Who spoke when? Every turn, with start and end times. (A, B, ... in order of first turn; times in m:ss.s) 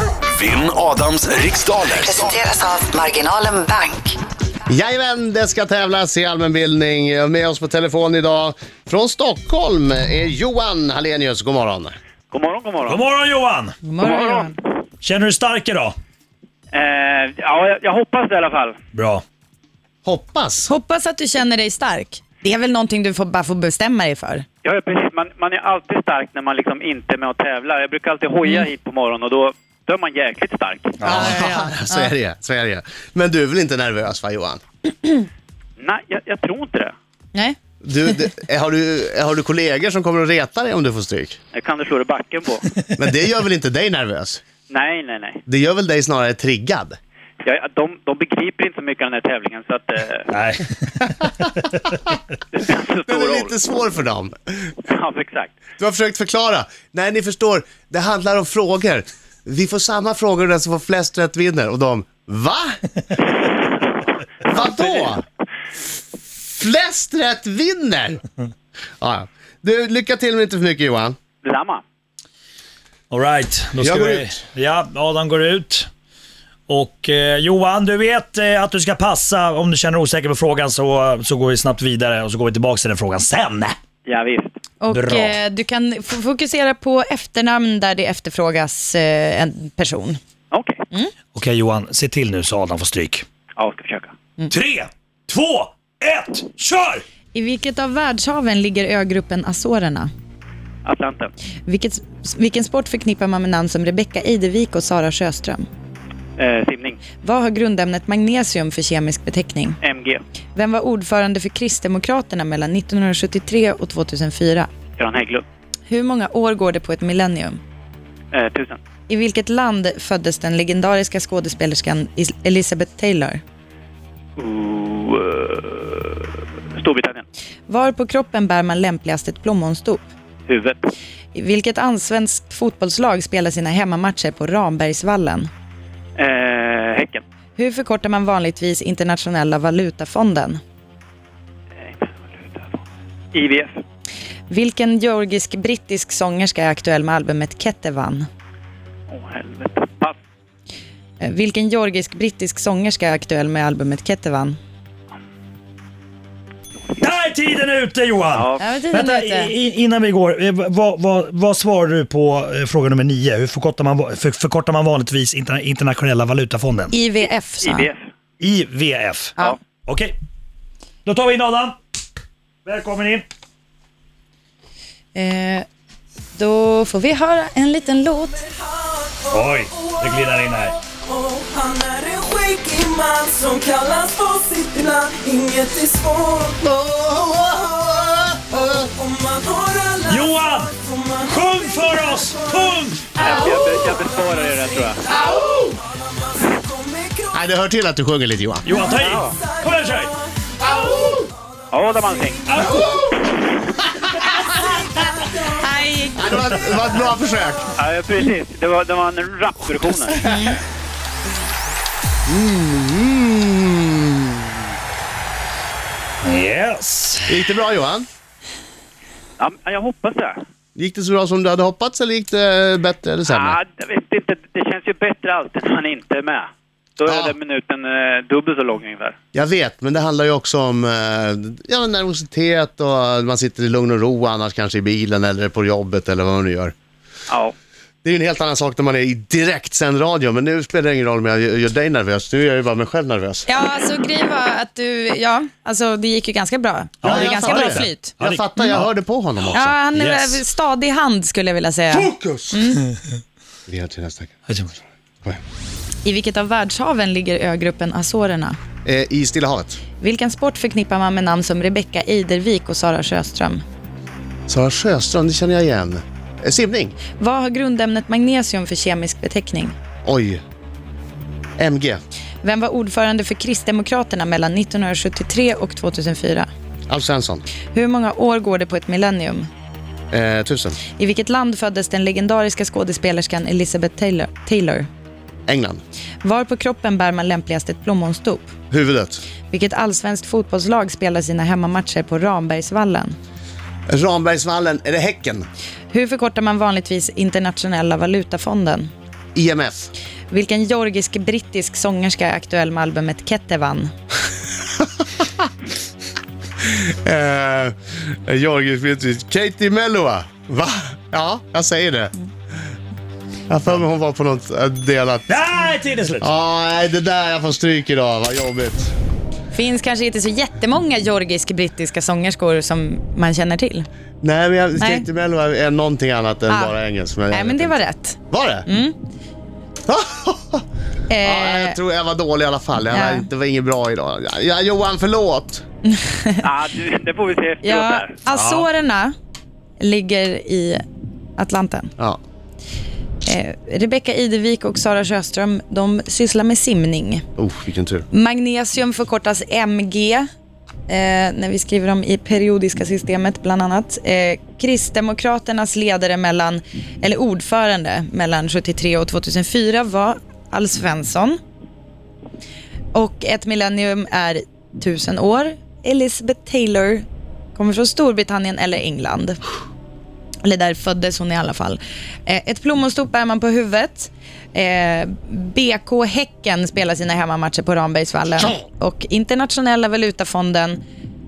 0:00.3-0:02.3 A
0:01.9-0:04.2 B
0:04.7-0:11.9 C
0:12.3-0:13.0 D
0:12.8-0:13.8 E
0:13.8-0:14.6 F
0:14.0-0:14.6 D
0:15.0-0:15.9 E
0:16.7-0:18.7 D
0:18.9-0:19.2 E
0:20.0-0:20.7 C
0:20.7-0:24.4 F
0:24.6-0:31.0 D
0:31.0-0:31.3 E
0:31.0-0:32.1 F
0:31.0-0:34.6 C
0:35.8-0:36.9 D
0:37.8-0:41.4 C
0:41.5-0:42.7 D
0:43.0-0:44.4 C
0:44.7-0:45.4 D
0:45.5-0:47.0 C
0:47.4-0:50.3 D
0:50.3-0:51.9 E
0:52.5-0:53.5 D
0:53.0-0:54.7 C
0:54.8-0:55.5 D
0:55.8-1:02.8 C
1:04.4-1:05.2 C
1:04.4-1:05.2 D
1:06.4-1:08.2 C
1:09.0-1:11.2 C
1:11.4-1:11.8 D
1:13.1-1:15.9 E
1:13.8-1:14.4 C
1:16.7-1:23.8 E
1:24.0-1:24.5 D
1:24.8-1:30.2 F
1:24.9-1:25.3 E
1:30.5-1:30.8 D
1:31.3-1:33.2 E
1:33.6-1:34.1 D
1:34.5-1:37.0 E
1:37.3-1:40.1 F
1:40.8-1:41.3 D
1:41.6-1:45.6 F
1:46.4-1:47.0 D
1:47.2-1:49.8 F
1:49.8-1:50.2 D
1:50.6-1:54.7 F
1:55.0-1:55.4 D
1:55.9-1:57.6 F
1:58.3-1:58.8 D
1:59.1-2:03.4 F
2:04.4-2:07.2 D
2:07.7-2:10.1 F
2:10.5-2:10.9 D
2:11.3-2:15.5 F
2:16.2-2:17.2 D
2:17.6-2:20.6 F
2:21.8-2:22.8 D
2:23.3-2:23.8 D
2:24.5-2:28.3 F
2:29.1-2:30.2 D
2:31.2-2:34.6 F
2:37.0-2:46.9 E
2:38.3-2:38.6 D
2:38.6-2:39.5 F
2:46.9-2:47.9 F
2:47.6-2:48.0 D
2:48.4-2:50.1 E
2:51.0-2:51.8 E
2:52.6-2:53.2 E
2:55.1-2:55.6 F
2:56.3-2:58.4 F
2:59.0-3:00.3 G
2:59.3-3:00.8 E
3:00.9-3:06.6 G
3:06.6-3:08.7 C
3:08.6-3:13.4 G
3:10.1-3:13.2 E
3:13.2-3:15.0 D
3:15.1-3:15.5 G
3:16.3-3:17.3 G
3:17.3-3:18.7 C
3:18.6-3:20.1 E
3:18.9-3:21.0 G
3:19.0-3:19.4 D
3:20.7-3:21.1 C
3:21.7-3:22.4 D
3:22.5-3:22.9 E
3:22.6-3:23.1 C
3:25.4-3:26.4 F
3:26.2-3:27.7 C
3:27.8-3:30.2 D
3:30.2-3:30.6 F
3:30.2-3:30.6 C
3:32.3-3:34.4 C
3:36.2-3:37.3 E
3:37.3-3:38.1 C
3:39.4-3:40.4 D
3:40.8-3:43.6 C
3:43.3-3:49.1 D
3:47.1-3:47.4 C
3:49.3-3:56.7 C
3:57.3-3:57.5 D
3:58.0-4:03.5 C
4:03.5-4:08.1 F
4:07.0-4:08.8 E
4:07.0-4:09.8 C
4:09.5-4:12.8 F
4:09.9-4:10.4 E
4:13.7-4:14.3 C
4:14.5-4:14.8 E
4:16.0-4:18.6 F
4:18.8-4:19.8 C
4:20.0-4:23.6 F
4:24.5-4:27.0 C
4:27.2-4:29.8 F
4:30.0-4:30.4 C
4:31.6-4:32.0 C
4:32.4-4:36.5 F
4:36.9-4:37.4 C
4:37.7-4:39.5 F
4:40.1-4:40.8 C
4:41.0-4:44.9 F
4:45.5-4:45.8 C
4:46.2-4:48.5 F
4:48.7-4:49.2 C
4:49.5-4:53.2 F
4:53.9-4:55.5 C
4:55.9-4:58.9 F
4:59.3-4:59.9 C
5:00.3-5:03.9 F
5:06.6-5:12.1 C
5:13.5-5:15.4 C
5:15.3-5:16.3 E
5:16.2-5:18.9 C
5:19.5-5:23.8 F
5:24.2-5:27.8 C
5:24.8-5:25.0 F
5:26.5-5:26.7 F
5:27.3-5:29.0 F
5:28.3-5:28.7 C
5:29.9-5:30.6 C
5:31.1-5:31.8 F
5:31.2-5:35.6 C
5:32.9-5:33.3 F
5:35.9-5:36.4 F
5:36.4-5:38.2 D
5:37.6-5:39.1 F
5:38.3-5:38.6 E
5:39.8-5:40.8 F
5:41.4-5:41.9 F
5:43.2-5:47.2 F
5:47.4-5:48.0 C
5:48.1-5:50.3 F
5:50.9-6:01.4 F
6:02.9-6:09.4 F
6:10.4-6:20.8 F